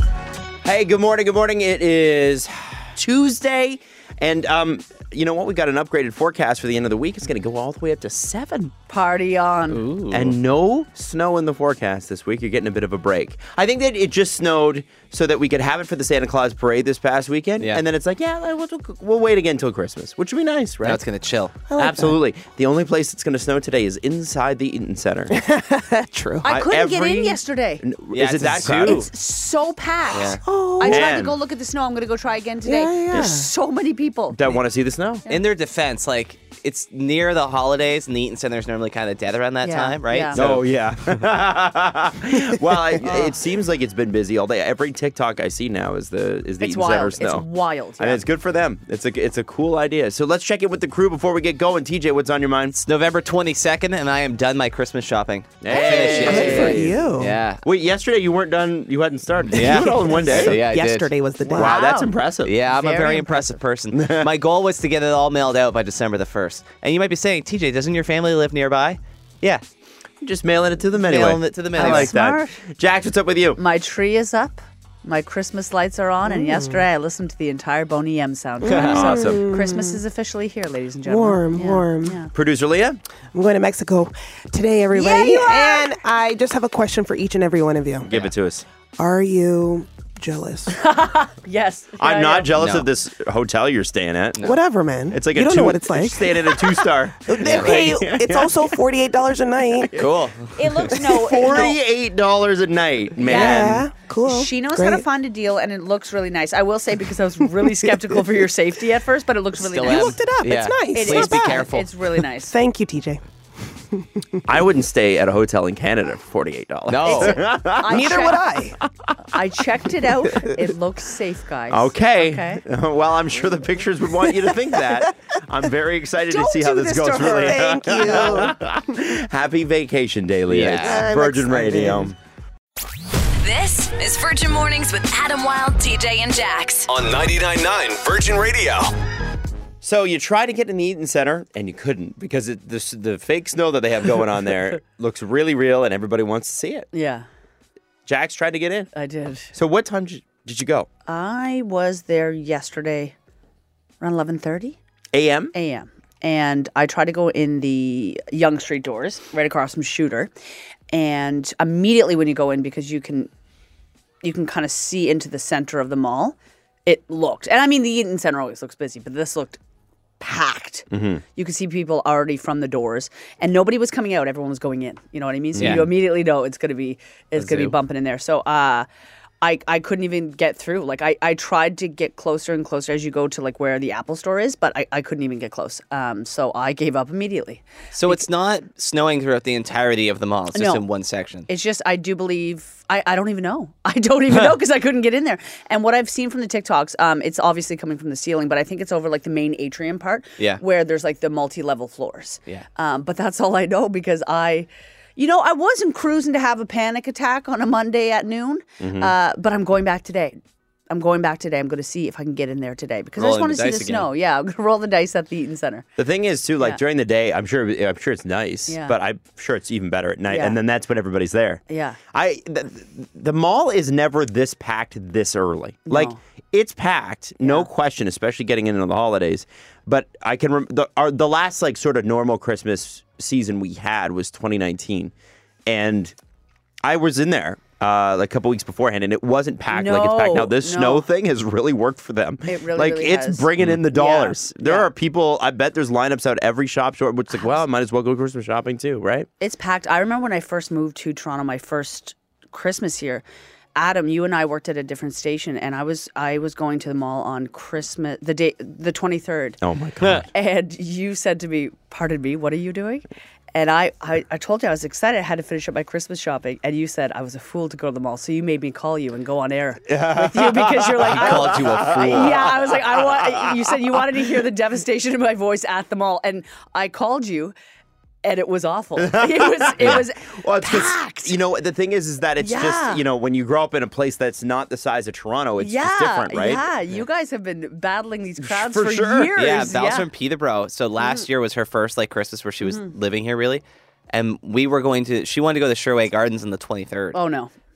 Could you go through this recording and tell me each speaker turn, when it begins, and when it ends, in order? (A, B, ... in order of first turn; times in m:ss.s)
0:00.6-0:08.7 A
0:08.9-0:09.8 B
0:09.7-0:10.4 C
0:10.1-0:21.0 A
0:20.8-0:21.6 C
0:21.7-0:22.2 D
0:21.8-0:25.4 A
0:25.3-0:26.5 D
0:26.4-0:27.8 B
0:26.5-0:29.1 A
0:28.1-0:29.1 C
0:28.8-0:34.4 B
0:30.1-0:30.4 C
0:30.4-0:31.1 D
0:30.9-0:31.4 A
0:32.6-0:33.5 D
0:34.3-0:35.2 A
0:35.3-0:41.2 C
0:39.6-0:40.4 B
0:40.3-0:47.5 A
0:43.0-0:43.3 B
0:46.6-0:48.2 B
0:48.0-0:52.8 A
0:52.8-0:57.6 C
0:55.6-0:57.0 A
0:55.7-0:57.4 D
0:57.6-1:00.6 A
0:59.5-1:01.1 C
0:59.5-1:01.8 D
1:01.5-1:03.6 B
1:01.5-1:02.5 A
1:02.4-1:09.6 C
1:03.9-1:04.3 A
1:10.2-1:13.6 A
1:11.0-1:12.1 C
1:11.8-1:12.6 B
1:13.6-1:22.3 B
1:16.3-1:16.8 D
1:18.6-1:20.0 D
1:18.9-1:19.4 A
1:21.0-1:22.2 D
1:22.3-1:23.0 A
1:23.3-1:28.1 D
1:24.9-1:25.9 B
1:28.0-1:28.6 A
1:29.0-1:30.8 D
1:30.7-1:32.5 B
1:32.0-1:34.5 A
1:32.6-1:32.9 C
1:34.4-1:40.0 D
1:35.1-1:38.6 A
1:37.4-1:38.0 C
1:40.0-1:40.9 C
1:40.6-1:41.8 B
1:40.9-1:43.9 A
1:43.2-1:45.0 D
1:43.2-1:50.2 B
1:47.6-1:48.2 D
1:49.6-1:51.9 C
1:49.8-1:51.7 D
1:50.9-1:52.6 B
1:52.5-1:54.4 D
1:54.5-1:58.3 A
1:56.9-1:57.4 C
1:57.0-1:58.4 B
1:57.8-1:58.8 D
1:58.8-1:59.1 A
1:59.3-2:02.6 B
2:01.7-2:12.2 A
2:04.3-2:05.0 D
2:06.3-2:08.6 D
2:07.0-2:08.3 B
2:10.5-2:11.1 C
2:10.8-2:12.1 D
2:13.4-2:16.9 E
2:16.9-2:18.9 F
2:19.8-2:26.9 A
2:26.9-2:27.3 B
2:28.1-2:28.9 A
2:28.9-2:29.5 B
2:29.5-2:30.9 A
2:31.1-2:33.2 B
2:34.0-2:34.8 B
2:35.1-2:35.5 A
2:35.5-2:40.3 B
2:40.9-2:43.3 B
2:44.2-2:49.6 B
2:50.2-2:58.9 B
2:50.9-2:51.2 A
2:55.5-2:55.9 A
2:55.6-2:55.9 C
2:57.4-2:57.7 C
2:59.4-3:08.2 B
3:08.0-3:11.5 C
3:10.5-3:10.8 B
3:11.5-3:30.4 B
3:28.8-3:29.1 A
3:30.9-3:35.9 B
3:33.2-3:34.1 C
3:36.0-3:41.6 A
3:38.7-3:39.0 B
3:40.3-3:40.6 B
3:41.7-3:42.0 B
3:42.1-3:55.1 A
3:45.9-3:46.2 B
3:47.4-3:47.7 B
3:55.7-3:56.2 A
3:56.8-4:09.3 A
3:59.7-4:01.1 B
4:02.5-4:04.9 B
4:09.4-4:13.2 B
4:13.8-4:19.6 B
4:19.6-4:20.3 A
4:20.3-4:37.5 B
4:29.9-4:33.6 A
4:31.1-4:32.4 C
4:38.2-4:41.4 B
4:39.0-4:46.6 A
4:42.4-4:43.0 B
4:45.6-4:50.1 B
4:48.4-4:49.6 A
4:49.4-4:57.2 C
4:51.0-4:51.3 B
4:52.6-4:52.9 B
4:57.1-4:57.5 B